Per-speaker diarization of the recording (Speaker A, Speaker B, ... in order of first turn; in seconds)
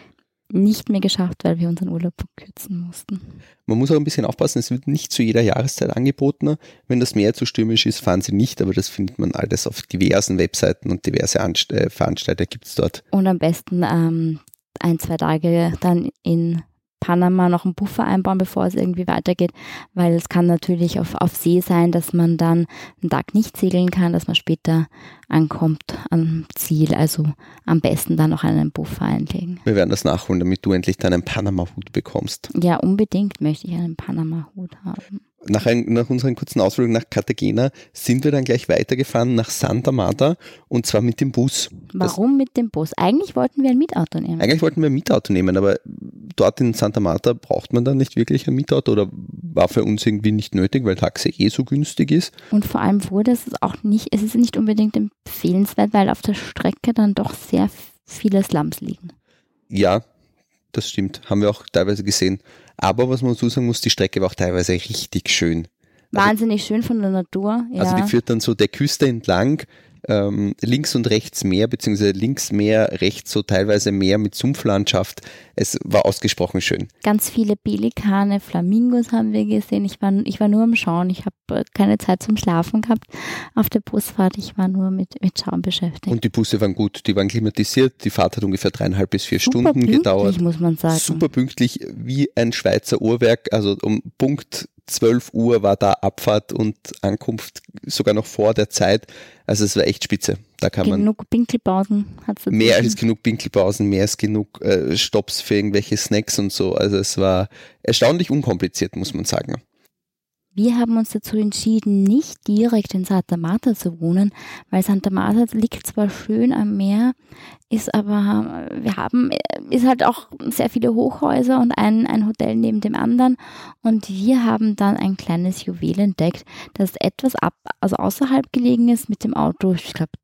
Speaker A: 0.5-3.2, 13.1-29.6, 32.5-35.2, 41.9-44.5, 52.5-59.1, 66.1-68.1, 77.0-86.2, 89.4-91.2, 100.8-103.0, 110.5-117.1, 117.7-130.1
Speaker B: 3.7-13.0, 29.6-32.5, 35.4-42.1, 44.4-52.3, 59.7-60.0, 60.7-66.3, 67.8-76.9, 86.1-90.4, 90.9-101.1, 102.5-109.6